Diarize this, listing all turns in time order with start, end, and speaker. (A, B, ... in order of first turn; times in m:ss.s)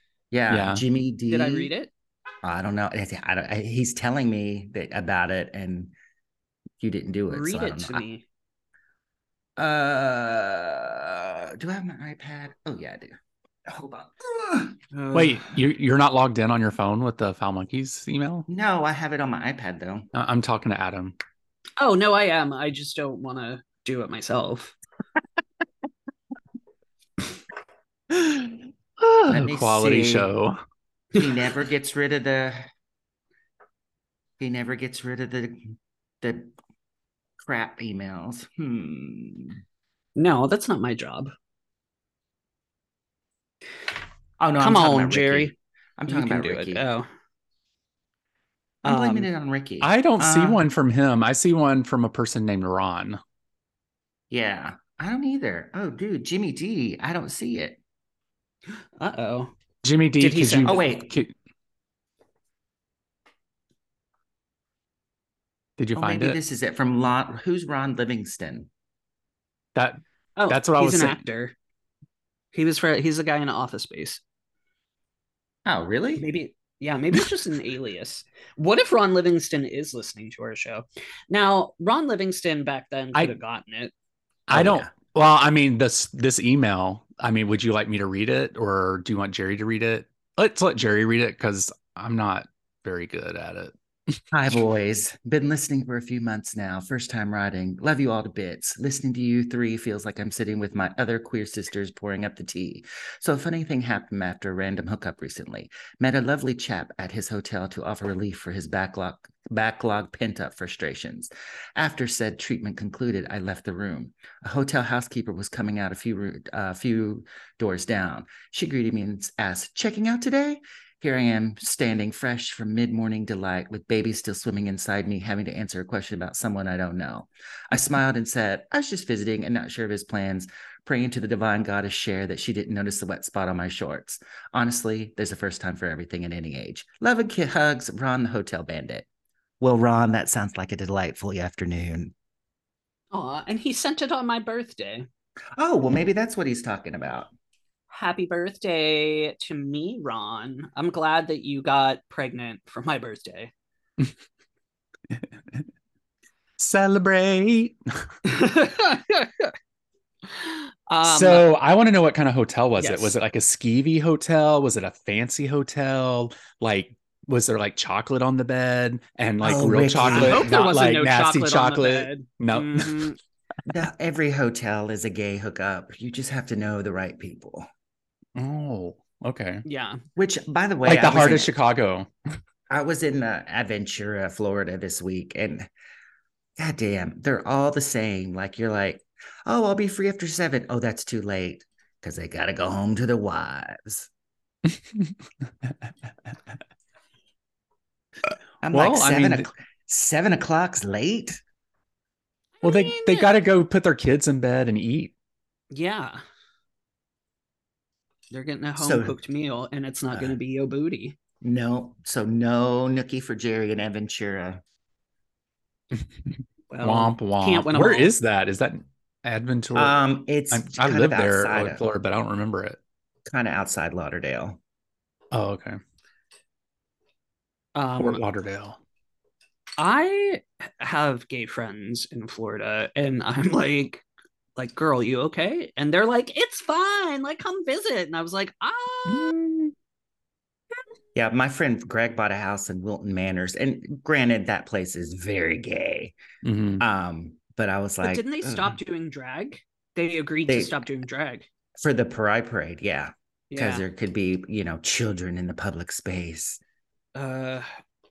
0:00.3-0:01.7 A
0:00.5-0:00.8 B
0:01.3-0:01.9 C
0:02.4-0:05.9 A
0:06.8-0:08.0 A
0:07.3-0:08.2 C
0:09.6-0:14.8 A
0:14.9-0:15.4 C
0:15.1-0:18.5 B
0:18.5-0:20.1 A
0:20.1-0:21.2 B
0:21.8-0:24.8 C
0:28.1-0:30.6 B
0:29.3-0:30.3 A
0:31.2-0:32.7 A
0:34.4-0:36.5 A
0:37.4-0:39.6 A
0:40.2-0:41.3 C
0:44.4-0:46.8 A
0:44.6-0:45.5 C
0:46.1-0:47.1 C
0:48.8-0:50.6 A
0:48.8-0:49.3 C
0:49.8-0:53.2 B
0:54.3-0:57.8 A
0:59.0-0:59.5 C
0:59.8-1:01.3 B
1:00.2-1:00.8 C
1:00.6-1:01.1 A
1:05.8-1:06.4 B
1:06.0-1:08.7 A
1:09.8-1:11.2 B
1:10.4-1:11.6 C
1:12.5-1:14.2 C
1:15.6-1:16.3 A
1:16.2-1:23.9 C
1:24.5-1:34.2 B
1:24.5-1:24.9 A
1:34.3-2:19.1 A
2:19.6-2:22.1 A
2:23.1-2:25.1 C
2:25.6-2:27.3 A
2:27.9-2:33.5 C
2:35.1-2:35.6 B
2:36.6-2:37.8 B
2:38.3-2:39.5 C
2:40.3-2:41.5 C
2:41.0-2:53.1 B
2:42.8-2:43.2 C
2:49.4-2:50.5 A
2:50.1-2:53.2 C
2:53.7-2:57.7 A
2:58.4-2:59.6 B
2:59.6-3:00.0 C
3:00.2-3:01.5 A
3:00.8-3:02.1 B
3:02.7-3:05.7 A
3:06.6-3:14.1 A
3:14.7-3:15.1 B
3:18.6-3:21.4 A
3:18.7-3:19.5 B
3:22.6-3:23.3 C
3:22.6-3:25.1 B
3:25.7-3:26.2 C
3:28.3-3:31.2 C
3:28.8-3:29.2 A
3:31.4-3:34.6 A
3:36.7-3:38.1 C
3:36.8-3:42.8 B
3:39.7-3:41.8 A
3:43.3-3:44.6 A
3:45.3-3:45.8 B
3:47.8-3:48.2 C
3:48.0-3:48.8 B
3:49.8-3:54.0 C
3:54.6-3:59.4 C
3:59.1-3:59.7 B
4:01.2-4:06.2 A
4:06.4-4:06.8 B
4:06.8-4:08.8 A
4:08.0-4:11.5 C
4:10.5-4:10.8 A
4:11.8-4:16.6 A
4:13.5-4:13.8 C
4:17.2-4:17.7 C